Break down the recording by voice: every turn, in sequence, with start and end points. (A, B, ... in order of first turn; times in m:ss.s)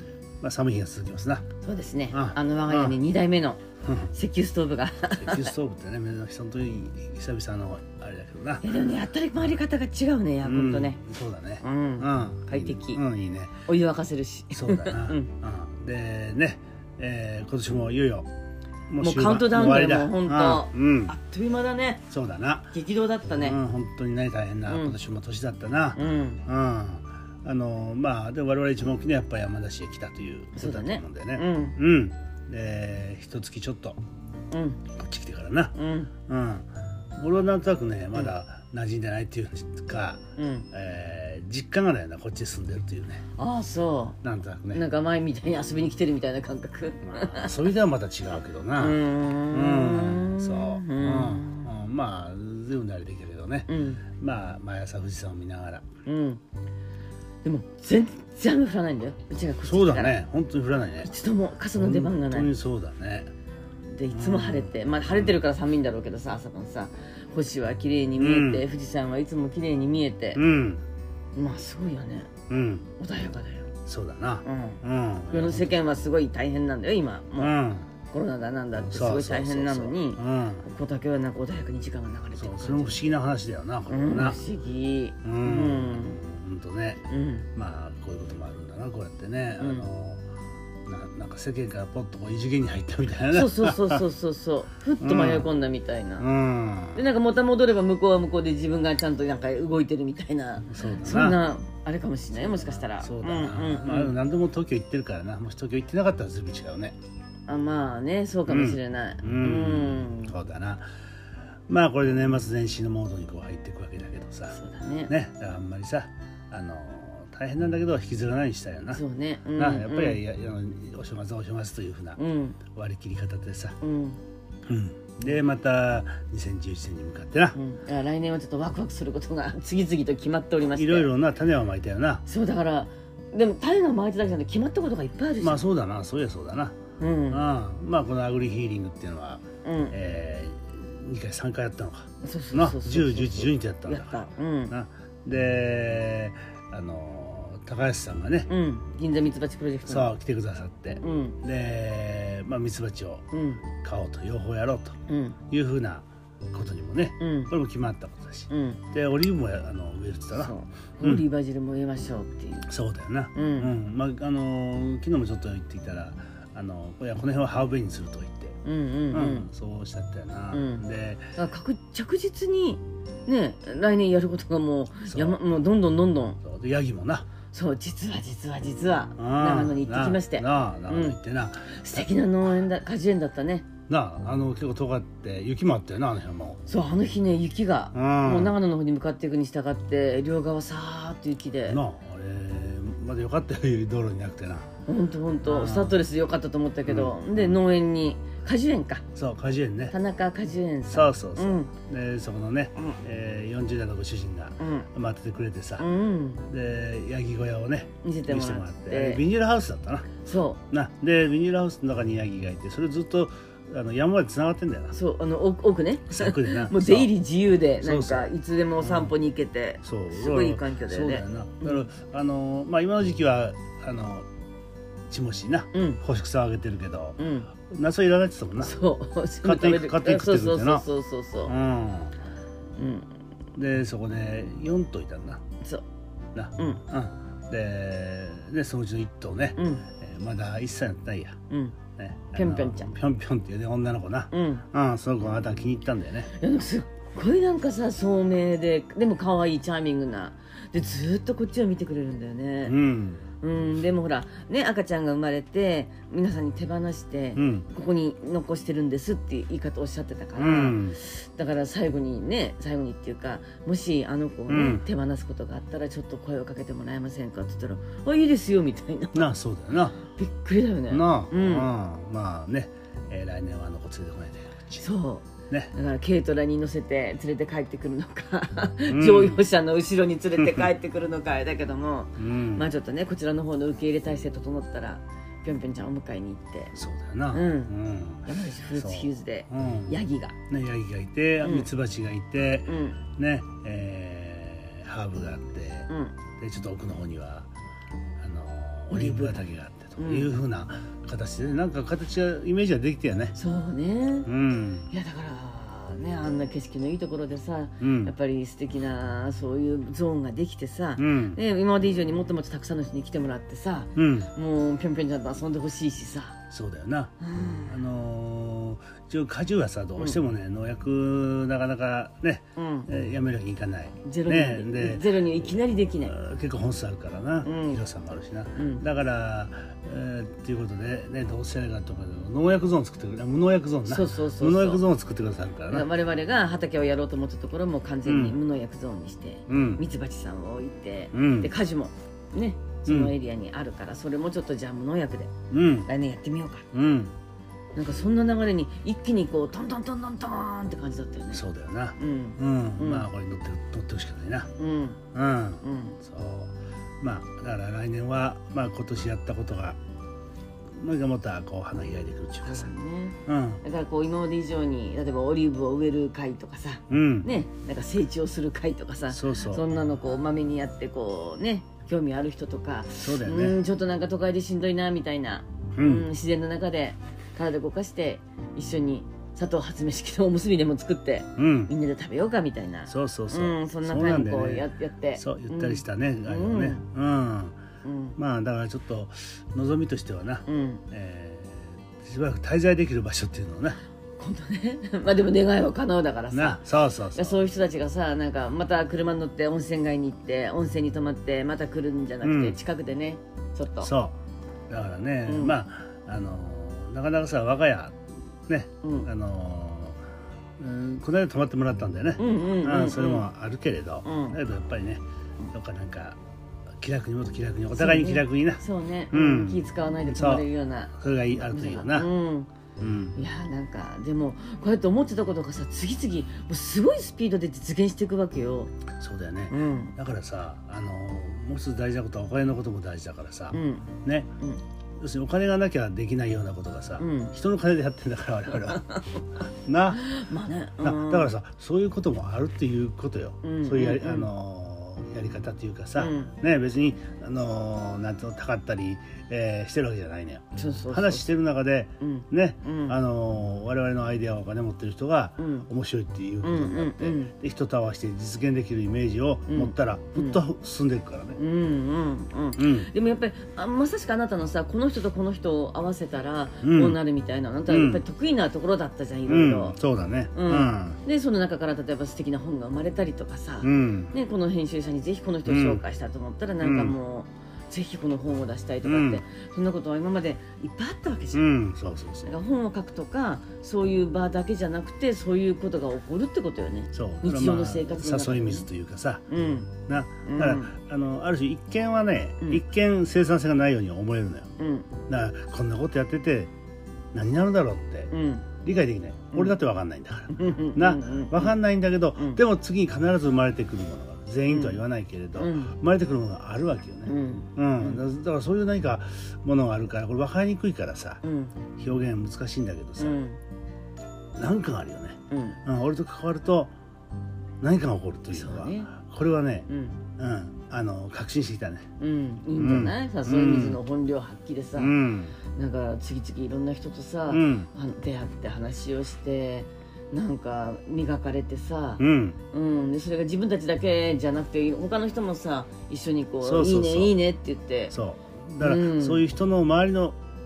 0:00.4-0:01.5 A
0:01.6-0:03.6 B
0:02.1-0:03.0 A
0:03.8-0:04.1 A
0:04.1-0:05.5 B
0:05.2-0:08.7 A
0:08.6-0:11.0 B
0:10.4-0:13.6 A
0:11.6-0:13.0 B
0:13.7-0:15.3 B
0:14.5-0:18.3 A
0:18.9-0:21.2 A
0:19.0-0:22.0 B
0:22.1-0:22.7 A
0:22.7-0:23.6 B
0:23.4-0:34.0 A
0:24.7-0:25.0 B
0:26.0-0:26.4 B
0:30.6-0:31.8 B
0:34.5-0:34.8 B
0:34.9-0:35.8 A
0:35.8-0:36.1 B
0:36.3-0:36.7 A
0:37.2-0:40.2 A
0:40.4-0:40.7 B
0:40.7-0:43.2 A
0:43.4-0:44.2 B
0:44.2-0:44.9 A
0:44.7-0:47.7 B
0:47.0-0:55.9 A
0:48.8-0:51.7 B
0:53.7-0:54.0 B
0:56.0-0:56.4 B
0:57.4-1:00.2 B
0:59.6-1:01.1 A
1:01.0-1:02.5 B
1:01.8-1:03.3 A
1:03.9-1:10.4 B
1:04.1-1:05.4 A
1:08.2-1:08.7 A
1:10.4-1:10.8 A
1:11.4-1:12.3 B
1:12.5-1:12.9 A
1:13.0-1:13.7 B
1:13.9-1:15.9 A
1:14.4-1:17.6 B
1:17.4-1:17.9 A
1:18.1-1:23.0 B
1:18.8-1:20.7 A
1:22.4-1:24.4 A
1:23.9-1:26.2 B
1:25.2-1:27.0 A
1:27.1-1:27.5 B
1:27.6-1:30.2 A
1:29.6-1:29.9 B
1:30.9-1:34.0 A
1:33.3-1:36.3 B
1:35.0-1:35.5 A
1:36.2-1:37.1 A
1:36.9-1:44.2 B
1:40.7-1:41.4 A
1:42.3-1:47.0 A
1:47.5-1:50.3 B
1:48.5-1:50.8 A
1:51.7-1:54.6 A
1:54.5-1:55.1 B
1:55.1-1:59.0 A
1:58.9-2:00.2 B
1:59.6-2:03.8 A
2:02.2-2:02.6 B
2:03.8-2:04.2 B
2:04.7-2:07.6 A
2:07.5-2:11.1 B
2:10.8-2:12.2 A
2:12.3-2:15.6 B
2:15.4-2:16.8 A
2:17.0-2:17.4 B
2:17.3-2:28.5 A
2:19.6-2:19.9 B
2:22.2-2:24.7 B
2:28.5-2:30.1 B
2:29.9-2:35.0 A
2:31.0-2:31.4 B
2:33.3-2:33.6 B
2:35.1-2:35.4 B
2:35.5-2:41.3 A
2:37.2-2:37.5 B
2:38.5-2:38.8 B
2:40.3-2:42.7 B
2:42.7-2:48.6 A
2:43.3-2:43.7 B
2:48.6-2:49.5 B
2:49.1-2:51.3 A
2:50.5-2:50.8 B
2:51.4-2:56.4 B
2:55.0-2:55.4 A
2:56.4-2:57.3 A
2:57.5-3:03.7 B
2:59.2-3:02.1 A
3:03.9-3:06.6 A
3:06.7-3:11.8 B
3:07.9-3:08.6 A
3:11.7-3:14.7 A
3:14.9-3:19.0 B
3:15.4-3:16.0 A
3:16.9-3:17.6 A
3:19.2-3:20.0 A
3:19.9-3:21.7 B
3:20.9-3:25.9 A
3:24.6-3:24.9 B
3:25.8-3:26.4 B
3:26.5-3:30.1 A
3:28.0-3:29.2 B
3:30.2-3:30.6 B
3:30.7-3:35.0 A
3:34.9-3:41.9 B
3:36.1-3:37.1 A
3:37.8-3:39.2 A
3:39.8-3:44.3 A
3:45.1-3:48.7 A
3:45.7-3:46.0 B
3:47.2-3:47.5 B
3:48.6-3:51.6 B
3:49.4-3:50.9 A
3:51.5-3:52.2 A
3:52.8-3:53.1 B
3:53.6-3:55.4 A
3:56.3-4:01.4 A
3:56.6-3:56.8 B
3:59.6-3:59.8 B
4:01.5-4:01.8 B
4:02.0-4:06.3 A
4:02.4-4:03.0 B
4:04.3-4:04.7 B
4:06.3-4:12.8 B
4:12.6-4:13.2 A
4:13.4-4:29.3 B
4:17.4-4:17.7 A
4:20.4-4:21.0 A
4:24.5-4:24.8 A
4:29.1-4:30.0 A
4:30.1-4:31.7 B
4:30.9-4:34.9 A
4:34.8-4:46.8 B
4:38.9-4:39.4 A
4:40.4-4:40.7 A
4:42.2-4:42.7 A
4:46.8-4:57.5 A
4:47.3-4:47.7 B
4:48.3-4:50.4 B
4:51.4-4:51.7 B
4:52.7-4:53.0 B
4:55.9-4:56.2 B
4:58.2-5:03.4 A
4:58.9-4:59.5 B
5:00.0-5:00.4 B
5:03.4-5:04.3 B
5:04.3-5:04.9 A
5:04.9-5:16.4 B
5:07.8-5:08.1 A
5:11.0-5:11.4 A
5:14.0-5:14.3 A
5:16.5-5:35.9 A
5:17.2-5:17.8 B
5:22.6-5:23.1 B
5:24.0-5:26.2 B
5:27.4-5:27.8 B
5:28.6-5:28.8 B
5:33.9-5:34.8 B
5:35.7-5:45.3 B
5:38.0-5:38.4 A
5:39.5-5:39.8 A
5:41.1-5:41.5 A
5:42.9-5:43.1 A
5:45.5-5:45.9 A
5:45.9-5:46.7 B
5:46.7-5:47.2 A
5:47.8-5:51.4 B
5:51.3-5:54.5 A
5:52.0-5:53.1 B
5:54.6-5:55.0 B
5:55.1-5:59.8 A
5:55.6-5:56.0 B
6:00.8-6:02.7 A
6:02.4-6:26.9 B
6:03.3-6:03.6 A
6:06.9-6:07.3 A
6:09.1-6:09.6 A
6:13.0-6:13.6 A
6:15.8-6:16.1 A
6:21.4-6:21.7 A
6:22.9-6:27.6 A
6:27.8-6:28.2 B
6:28.2-6:33.8 A
6:30.5-6:30.8 B
6:34.2-6:36.6 B
6:36.3-6:37.4 A
6:37.2-6:43.9 B
6:42.2-6:42.6 A
6:43.8-6:44.2 A
6:44.7-6:50.0 A
6:45.3-6:45.6 B
6:48.8-6:49.1 B
6:50.6-6:56.2 A
6:52.2-6:53.3 B
6:54.0-6:54.4 B
6:56.8-7:02.1 A
6:57.8-7:02.5 B
7:02.8-7:03.2 A
7:03.2-7:08.7 B
7:09.0-7:14.3 A
7:09.5-7:10.0 B
7:13.5-7:13.9 B
7:15.0-7:20.2 A
7:17.0-7:17.3 B
7:20.0-7:21.3 B
7:20.8-7:41.4 A
7:23.4-7:24.3 B
7:26.0-7:26.3 B
7:30.6-7:31.3 B
7:32.0-7:33.0 B
7:35.4-7:35.7 B
7:36.4-7:37.3 B
7:39.5-7:40.4 B
7:41.4-7:49.8 B
7:42.6-7:42.9 A
7:46.6-7:47.0 A
7:47.7-7:48.0 A
7:49.3-7:51.0 A
7:50.3-8:01.5 B
7:53.6-7:54.1 A
7:55.5-7:55.8 A
7:56.6-7:57.0 A
7:58.8-7:59.2 A
8:01.3-8:02.4 A
8:02.3-8:08.7 B
8:06.9-8:09.2 A
8:09.3-8:09.7 B
8:09.9-8:14.5 A
8:10.2-8:10.7 B
8:14.6-8:14.9 B
8:15.1-8:16.5 A
8:17.1-8:18.1 A
8:18.1-8:18.5 B
8:18.6-8:31.2 A
8:20.3-8:21.6 B
8:24.5-8:24.8 B
8:25.4-8:25.8 B
8:27.1-8:28.0 B
8:31.2-8:31.6 B
8:31.8-8:33.2 A
8:33.0-8:33.4 B
8:34.4-8:36.7 A
8:35.3-8:35.6 B
8:37.6-8:39.7 A
8:38.3-8:38.9 B
8:39.7-8:40.0 B
8:40.2-8:41.9 A
8:42.0-8:45.0 B
8:42.6-8:43.8 A
8:44.8-8:45.4 A
8:45.5-8:57.9 B
8:47.3-8:47.7 A
8:52.0-8:52.4 A
8:56.4-8:57.2 A
8:57.9-9:00.2 A
8:58.6-8:59.2 B